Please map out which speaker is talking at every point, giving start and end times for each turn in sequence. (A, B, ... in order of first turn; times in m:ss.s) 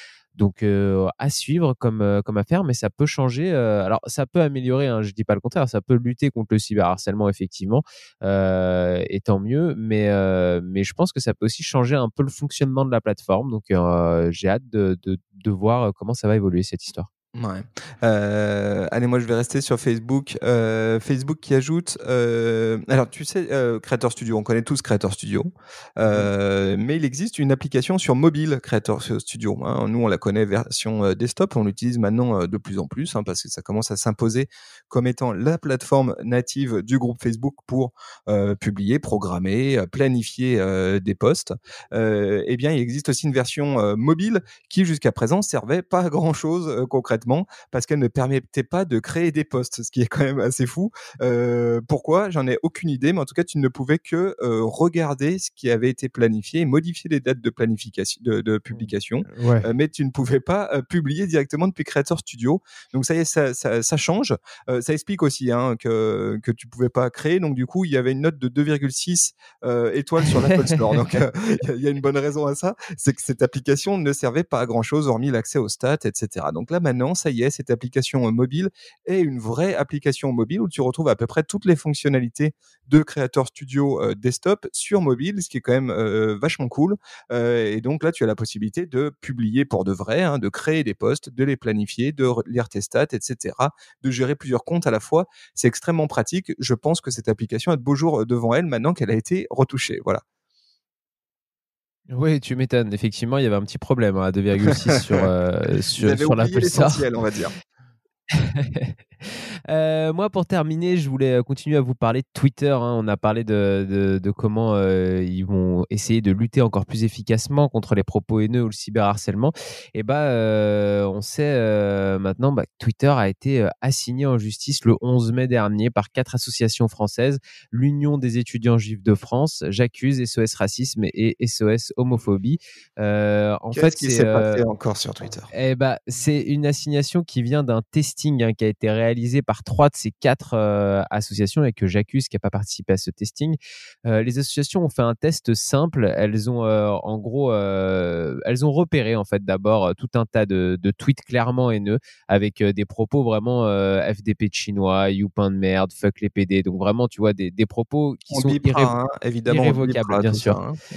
0:00.4-0:17.1 A
0:17.4-1:40.2 B
0:58.7-0:59.7 A
1:10.4-1:10.8 A
1:42.1-1:47.1 A
1:46.0-1:47.5 B
1:48.4-1:48.9 A
1:49.7-2:14.6 A
2:13.7-2:15.5 B
2:15.5-2:39.0 A
2:38.3-2:40.8 B
2:39.5-2:40.6 A